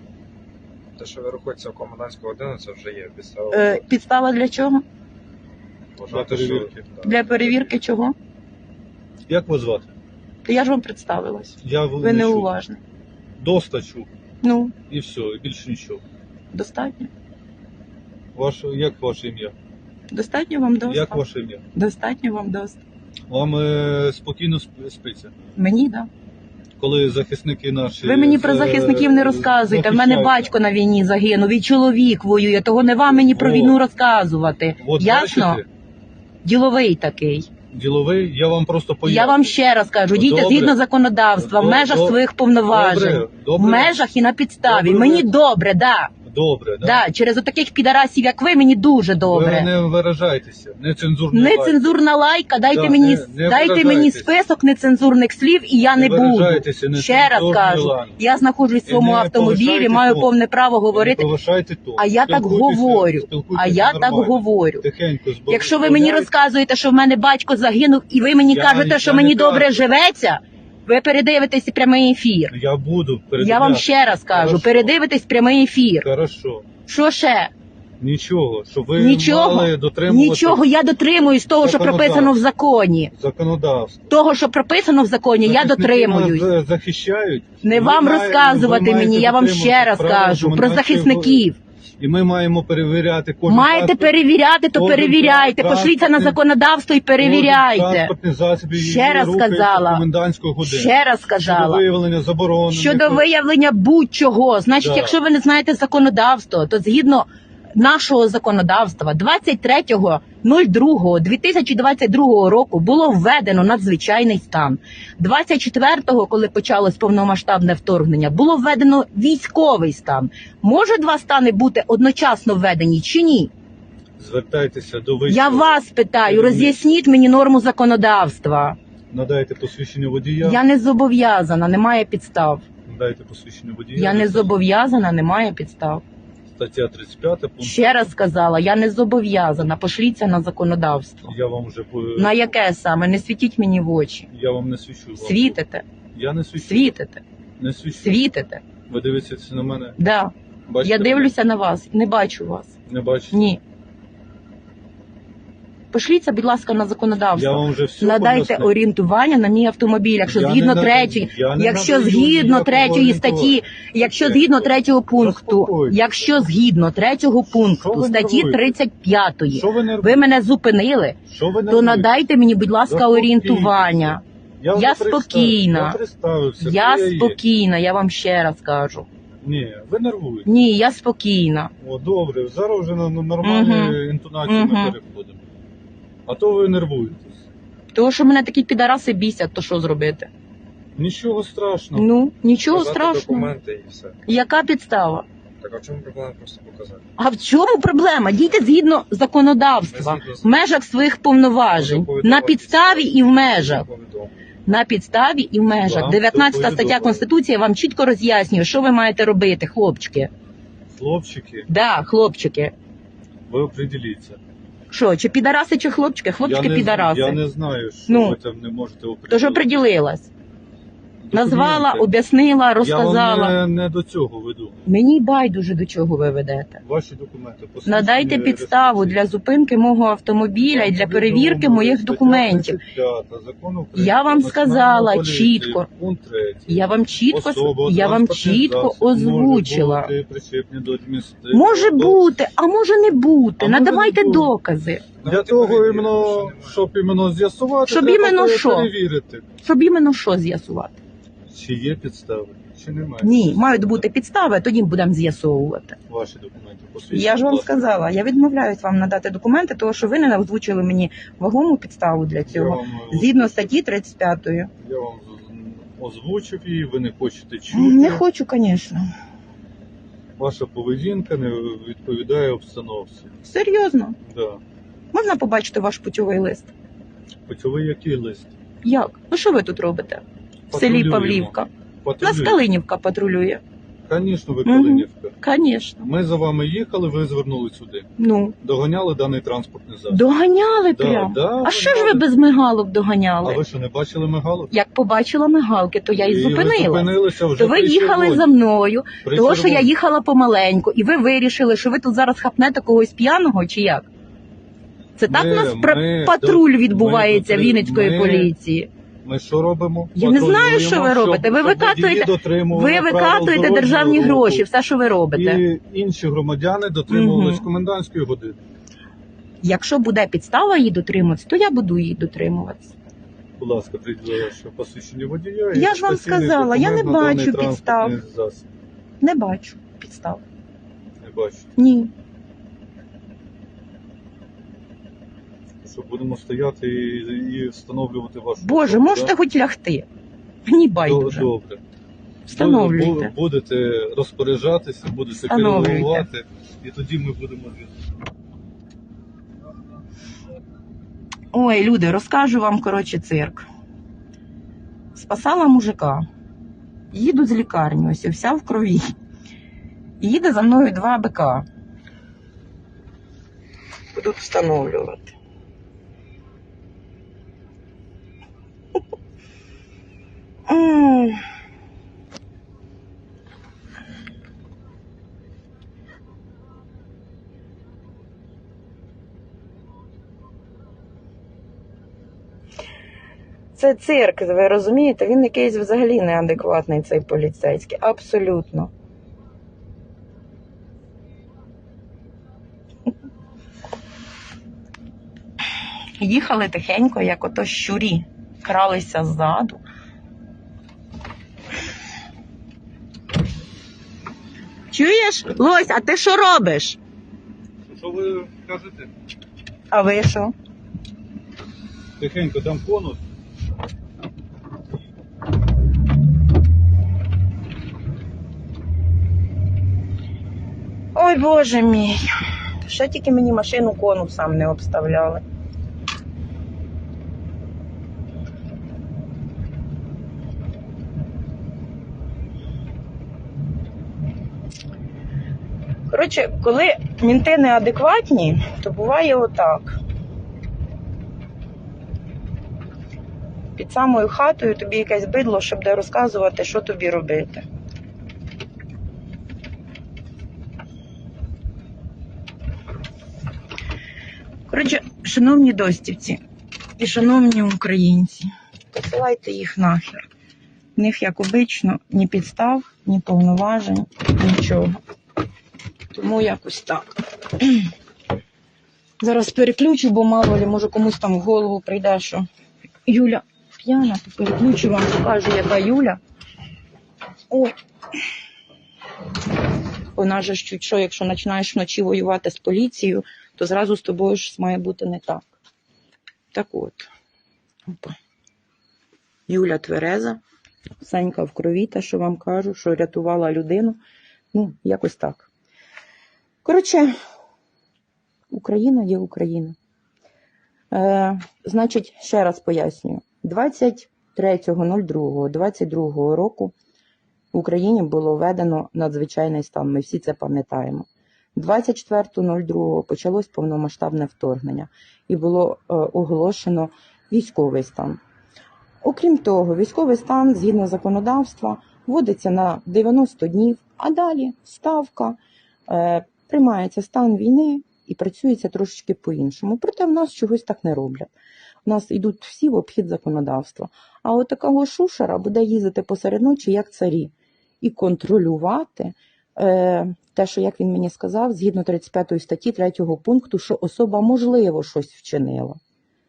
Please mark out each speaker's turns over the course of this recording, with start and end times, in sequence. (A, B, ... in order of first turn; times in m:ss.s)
0:01.0-0:03.8 A
0:03.5-0:04.8 B
0:06.0-0:07.5 A
0:06.1-0:06.8 C
0:07.0-0:08.2 B
0:09.3-0:09.9 C
0:10.4-0:12.8 B
0:11.6-0:12.5 C
0:13.4-0:14.1 C
0:14.4-0:14.7 B
0:14.9-0:16.0 C
0:16.5-0:17.1 B
0:18.3-0:19.5 C
0:20.1-0:21.2 B
0:20.9-0:21.6 C
0:21.7-0:22.8 B
0:23.3-0:25.3 C
0:25.6-0:26.1 B
0:26.8-0:30.5 C
0:28.0-0:35.6 B
0:33.0-0:33.8 C
0:34.8-0:35.6 C
0:36.4-0:37.5 B
0:37.7-0:39.5 C
0:39.0-0:46.1 B
0:40.1-0:40.8 C
0:41.4-0:44.1 C
0:44.6-0:45.3 C
0:46.2-0:47.0 C
0:46.8-0:49.7 B
0:49.2-0:52.0 C
0:51.3-1:01.3 B
0:52.7-0:54.3 C
0:55.9-0:58.2 C
0:58.8-1:00.3 C
1:00.9-1:06.3 C
1:02.0-1:04.8 B
1:05.5-1:12.5 B
1:08.5-1:09.9 C
1:12.5-1:14.9 C
1:13.4-1:16.1 B
1:16.0-1:16.6 C
1:16.9-1:17.5 B
1:18.0-1:20.7 C
1:18.9-1:23.1 B
1:21.5-1:22.4 C
1:23.1-1:24.1 C
1:24.1-1:26.5 B
1:25.4-1:31.4 C
1:27.6-1:31.6 B
1:32.0-1:36.4 C
1:33.4-1:38.1 B
1:37.2-1:43.2 C
1:38.7-1:40.0 B
1:40.6-1:41.8 B
1:42.7-2:03.5 B
1:44.8-1:45.2 C
2:04.2-2:06.8 C
2:05.3-2:08.8 B
2:09.1-2:10.6 C
2:10.4-2:12.6 B
2:12.8-2:14.6 C
2:13.9-2:16.0 B
2:16.6-2:18.0 C
2:17.6-2:21.3 B
2:21.2-2:22.4 C
2:22.2-2:24.3 B
2:24.3-2:25.6 C
2:25.2-2:25.8 B
2:26.1-2:26.9 C
2:26.6-2:27.2 B
2:27.6-2:28.2 C
2:28.0-2:28.6 B
2:28.9-2:30.0 C
2:30.0-2:32.7 B
2:30.7-2:31.3 C
2:32.9-2:33.6 C
2:33.3-2:33.6 B
2:35.9-2:54.2 B
2:37.3-2:38.7 C
2:40.2-2:46.1 C
2:47.5-2:48.7 C
2:49.5-2:50.2 C
2:51.3-2:52.2 C
2:52.8-2:57.4 C
2:54.7-2:56.0 B
2:56.6-2:59.1 B
2:59.4-3:00.5 C
3:00.4-3:01.7 B
3:01.8-3:05.4 C
3:03.4-3:05.0 B
3:06.3-3:07.4 C
3:07.9-3:10.3 B
3:11.0-3:12.1 C
3:11.9-3:13.5 B
3:12.7-3:14.2 A
3:14.2-3:15.2 B
3:15.6-3:17.0 A
3:17.2-3:23.8 B
3:19.9-3:20.5 A
3:21.7-3:24.4 A
3:24.6-3:30.3 B
3:25.8-3:27.2 C
3:30.9-3:31.7 C
3:31.7-3:32.7 B
3:33.5-3:34.4 C
3:34.9-3:37.4 B
3:36.4-3:39.7 C
3:38.1-3:38.4 B
3:39.3-3:40.3 B
3:41.2-3:42.1 C
3:41.3-3:43.6 B
3:42.8-3:44.9 C
3:44.8-3:46.8 B
3:46.8-3:49.2 C
3:47.8-3:52.8 B
3:50.6-4:02.3 C
3:53.9-3:55.9 B
3:56.7-4:00.1 B
4:01.5-4:05.2 B
4:03.6-4:04.5 C
4:05.2-4:06.8 A
4:05.2-4:09.4 C
4:07.9-4:08.9 B
4:09.6-4:11.0 B
4:11.5-4:14.0 C
4:13.2-4:16.0 B
4:16.1-4:17.9 C
4:17.1-4:24.7 B
4:22.4-4:23.7 C
4:24.8-4:28.2 C
4:27.7-4:29.0 B
4:30.4-4:33.3 C
4:33.4-4:34.2 B
4:34.2-4:34.6 C
4:35.1-4:36.7 B
4:37.5-4:38.5 C
4:38.8-4:41.7 B
4:40.7-4:42.6 C
4:42.2-4:43.6 B
4:44.1-4:45.4 C
4:44.6-4:46.0 B
4:46.0-4:48.1 C
4:48.2-4:48.6 B
4:48.6-4:50.3 C
4:50.1-4:53.6 B
4:50.9-4:52.2 C
4:53.4-4:54.7 C
4:54.7-5:04.1 B
4:56.1-4:58.5 C
4:59.2-4:59.9 C
5:05.2-5:08.9 B
5:05.3-5:08.5 C
5:09.2-5:14.6 C
5:10.1-5:15.6 B
5:15.3-5:18.6 C
5:17.1-5:17.7 B
5:19.6-5:22.9 B
5:23.6-5:28.7 C
5:25.7-5:28.2 B
5:29.2-5:30.4 B
5:31.2-5:31.7 C
5:31.8-5:32.1 B
5:35.8-5:39.3 C
5:38.6-5:40.1 B
5:40.6-5:41.5 B
5:41.0-5:41.8 C
5:42.4-5:43.3 B
5:42.5-5:48.0 C
5:45.3-5:46.3 B
5:51.5-5:53.6 B
5:55.1-5:56.2 B
5:57.1-5:59.0 B
6:00.2-6:01.6 B
6:04.1-6:05.3 B
6:10.7-6:11.4 B
6:23.7-6:28.9 B
6:36.2-6:39.8 B
6:44.9-6:47.0 B
6:47.9-6:49.1 C
6:49.9-6:50.5 B
6:52.2-6:53.2 C
7:01.1-7:02.2 B
7:02.8-7:05.4 B
7:16.1-7:20.0 B
7:23.8-7:27.6 B
7:34.7-7:36.4 B
7:37.0-7:40.2 B
7:41.0-7:44.9 B
7:46.1-7:47.9 B
7:49.2-7:52.5 B
7:53.1-7:56.2 B
7:57.5-7:57.7 B
8:00.2-8:05.5 B
8:06.5-8:07.1 B
8:07.9-8:08.2 B
8:09.5-8:10.4 B
8:11.0-8:14.0 B
8:14.5-8:15.5 B
8:16.6-8:17.1 B
8:18.5-8:19.8 B
8:20.9-8:26.7 B
8:27.5-8:38.2 B
8:39.0-8:51.3 B
8:51.8-9:05.8 B